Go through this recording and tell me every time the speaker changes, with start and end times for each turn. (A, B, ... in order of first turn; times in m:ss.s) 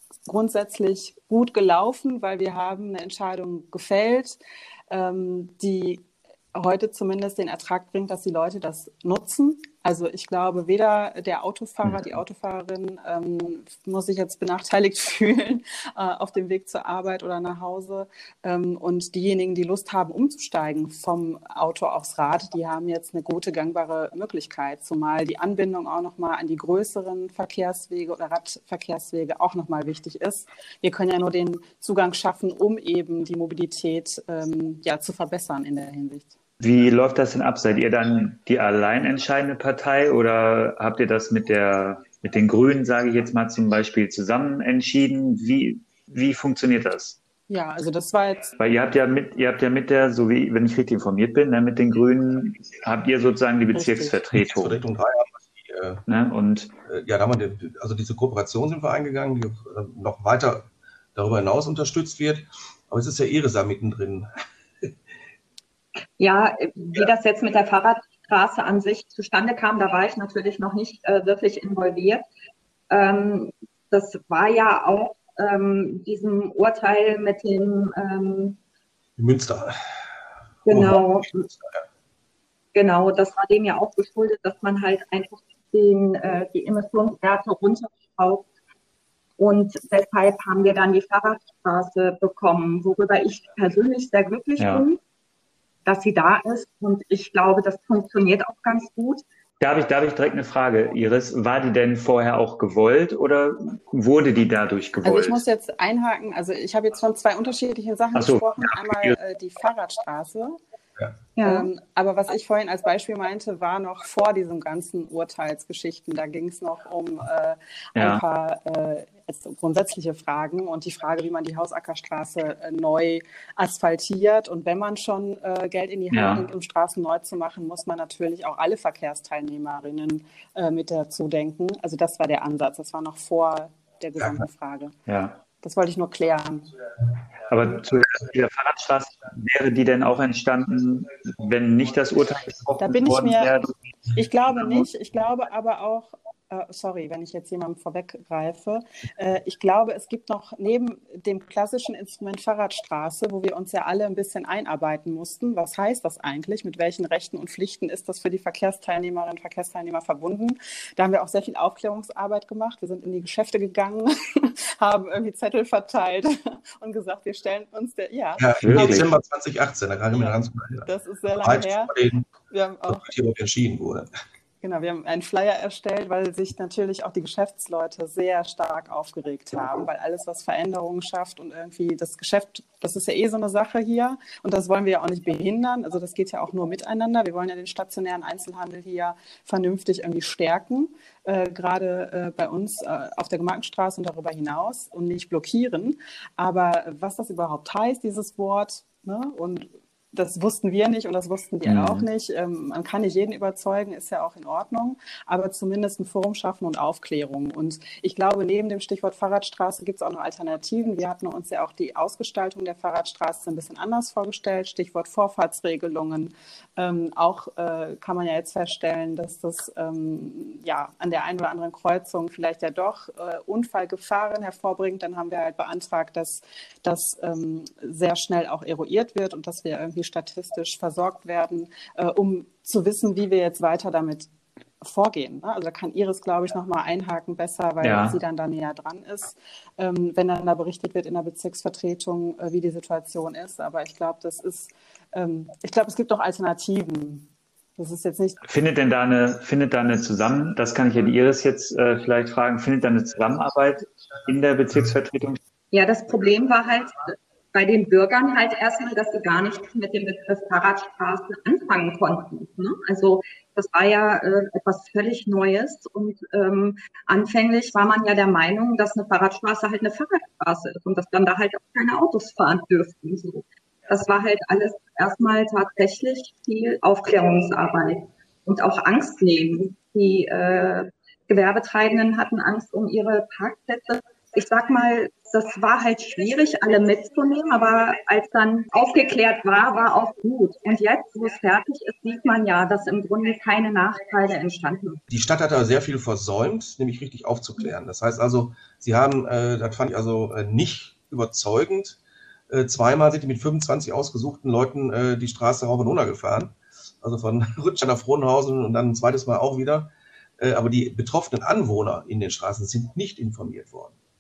0:00.3-0:04.4 A
0:04.9-0:36.3 A
0:36.6-0:47.2 B
0:47.5-0:48.5 A
0:48.6-0:54.7 B
0:53.7-0:54.2 A
0:54.4-0:56.0 C
0:56.1-0:56.7 B
0:56.9-1:04.3 C
1:06.2-1:12.2 D
1:12.9-1:18.6 D
1:19.2-1:19.8 C
1:20.7-1:21.5 D
1:20.7-1:21.8 C
1:22.7-1:28.5 D
1:29.4-1:35.0 D
1:34.6-1:34.8 B
1:35.9-1:39.2 D
1:39.6-1:45.4 B
1:45.0-1:50.6 A
1:48.2-1:49.2 B
1:51.4-1:51.7 D
1:51.4-2:15.0 A
1:58.0-1:58.2 B
2:06.1-2:06.4 B
2:15.1-2:15.4 B
2:15.6-2:16.7 A
2:17.5-2:23.8 B
2:22.8-2:23.5 A
2:24.1-2:48.9 A
2:24.6-2:24.9 B
2:48.4-2:50.9 C
2:48.6-2:49.1 B
2:50.9-2:51.9 A
2:51.4-2:52.3 C
2:52.5-2:53.1 A
2:52.9-2:54.1 C
2:54.6-3:54.3 A
3:21.7-3:22.1 B
3:54.8-4:08.4 A
3:57.8-3:58.2 B
4:08.5-4:15.4 B
4:15.7-4:55.0 D
4:55.1-5:02.0 C
5:02.5-5:13.9 C